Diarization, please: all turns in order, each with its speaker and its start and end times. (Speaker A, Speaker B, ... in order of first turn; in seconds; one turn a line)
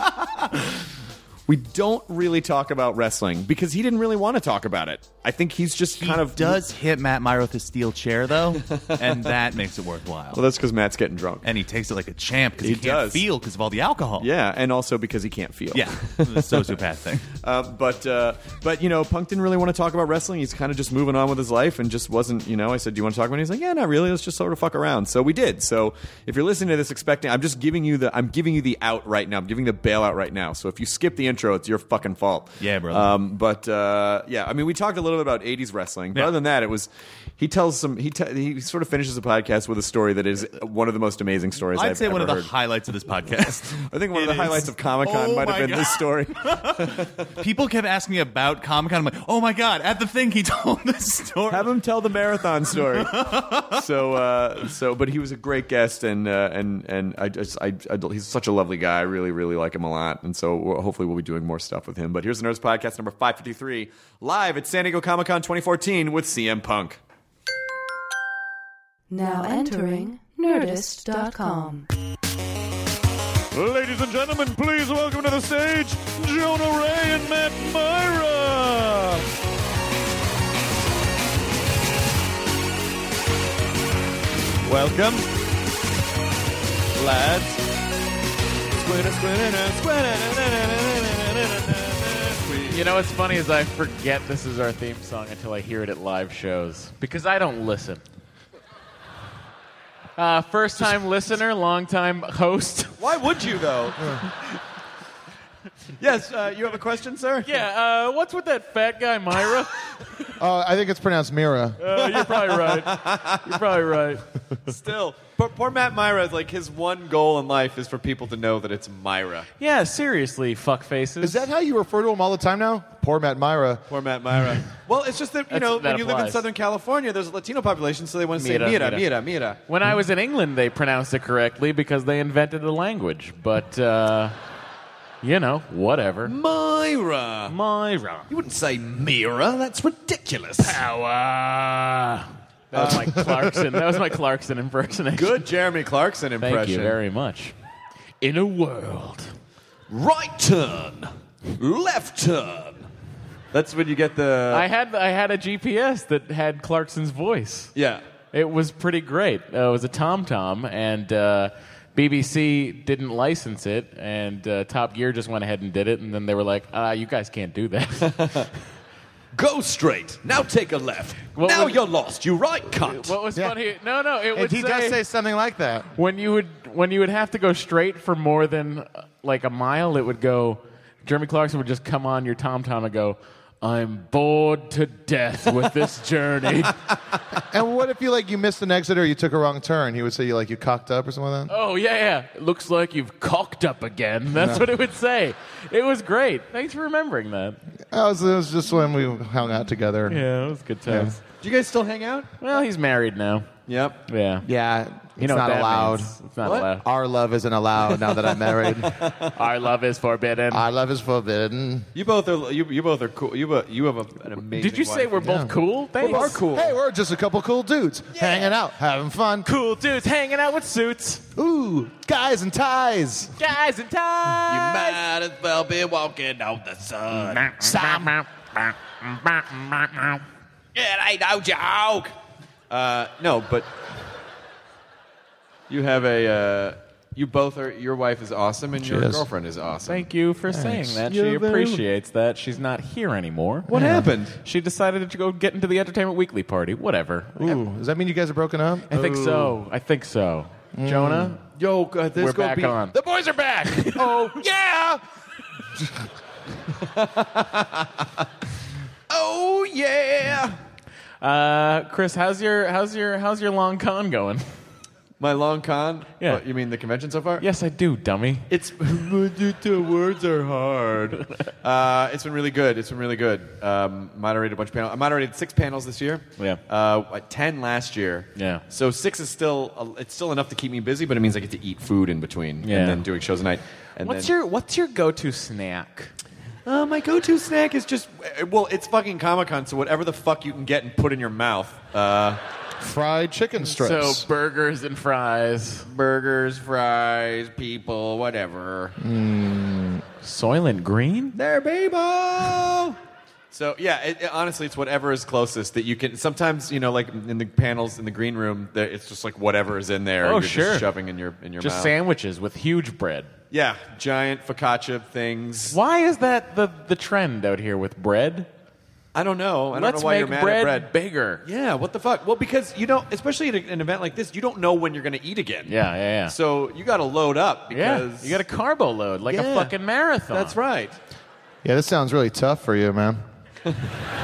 Speaker A: 1.5-6.6
Speaker B: 6.0-10.4
Speaker A: 8.6-9.3
Speaker A: 10.3-11.5
Speaker B: 11.4-14.3
Speaker A: 12.6-13.3
Speaker A: 14.2-16.8
Speaker B: 15.7-17.3
Speaker A: 17.3-42.5
Speaker B: 32.6-33.2
Speaker B: 41.7-51.7
Speaker A: 43.5-47.3
Speaker A: 51.5-67.0
Speaker B: 52.8-53.7
Speaker C: 69.1-71.9
Speaker A: 73.5-79.3
Speaker A: 84.6-85.2
Speaker A: 87.0-87.6
Speaker A: 88.8-92.9
Speaker D: 92.7-98.0
Speaker D: 100.2-103.0
Speaker A: 103.0-104.2
Speaker A: 106.0-107.5
Speaker D: 107.4-109.8
Speaker E: 110.4-111.8
Speaker D: 111.8-114.2
Speaker A: 112.0-113.5
Speaker A: 114.7-119.5
Speaker D: 119.6-121.4
Speaker E: 121.2-123.8
Speaker A: 123.9-129.6
Speaker D: 125.5-126.4
Speaker D: 128.4-129.1
Speaker D: 129.7-134.3
Speaker D: 135.2-136.3
Speaker A: 136.2-137.5
Speaker D: 137.5-138.3
Speaker A: 138.3-140.8
Speaker D: 140.6-145.4
Speaker A: 142.7-143.2
Speaker E: 143.2-143.5
Speaker A: 145.2-147.0
Speaker D: 146.4-147.5
Speaker D: 148.2-149.3
Speaker A: 149.9-152.9
Speaker A: 153.5-154.7
Speaker D: 154.5-157.7
Speaker A: 157.8-158.0
Speaker D: 158.3-168.3
Speaker A: 168.0-168.4
Speaker A: 169.3-173.2
Speaker D: 171.4-171.8
Speaker D: 172.8-175.0
Speaker E: 174.3-175.9
Speaker D: 176.0-186.8
Speaker E: 187.5-191.5
Speaker D: 191.5-197.6
Speaker E: 194.4-194.6
Speaker E: 197.9-200.2
Speaker D: 200.1-201.2
Speaker E: 200.9-201.1
Speaker A: 201.4-202.3
Speaker D: 202.4-203.5
Speaker A: 203.7-204.0
Speaker D: 204.1-204.4
Speaker E: 204.4-206.1
Speaker D: 205.2-206.8
Speaker E: 206.8-208.9
Speaker A: 207.9-209.3
Speaker D: 209.4-210.7
Speaker E: 210.5-211.9
Speaker A: 211.9-215.2
Speaker D: 214.6-216.4
Speaker E: 215.2-219.5
Speaker A: 216.0-216.8
Speaker D: 219.4-221.2
Speaker E: 221.4-223.3
Speaker D: 223.4-225.0
Speaker A: 224.5-227.9
Speaker D: 227.1-228.3
Speaker D: 229.0-230.2
Speaker A: 230.8-232.1
Speaker A: 232.7-233.7
Speaker A: 235.7-240.1
Speaker E: 238.8-239.2
Speaker D: 239.9-243.7
Speaker E: 240.5-241.0
Speaker A: 241.1-241.8
Speaker E: 243.7-244.1
Speaker A: 243.7-244.4
Speaker D: 244.4-247.6
Speaker E: 247.4-249.5
Speaker D: 248.9-251.4
Speaker E: 250.8-251.4
Speaker A: 251.5-252.9
Speaker D: 252.2-254.3
Speaker E: 254.0-255.0
Speaker A: 254.1-254.4
Speaker A: 256.9-257.9
Speaker A: 259.1-260.6
Speaker D: 261.2-264.4
Speaker A: 265.2-267.4
Speaker D: 267.4-268.4
Speaker A: 268.5-284.3
Speaker D: 278.4-278.6
Speaker D: 282.6-283.0
Speaker D: 284.0-286.1
Speaker A: 286.7-292.4
Speaker E: 292.8-294.2
Speaker D: 293.7-295.9
Speaker A: 295.9-298.9
Speaker E: 299.0-300.0
Speaker D: 300.2-301.4
Speaker A: 301.4-303.0
Speaker A: 303.5-311.9
Speaker D: 310.2-310.9
Speaker D: 311.6-313.3
Speaker A: 313.5-315.8
Speaker D: 315.7-318.5
Speaker A: 319.1-320.9
Speaker D: 319.7-321.4
Speaker A: 321.4-325.7
Speaker D: 325.7-326.3
Speaker A: 326.3-328.4
Speaker D: 327.7-330.6
Speaker A: 329.3-329.7
Speaker A: 330.3-331.0
Speaker E: 331.6-333.2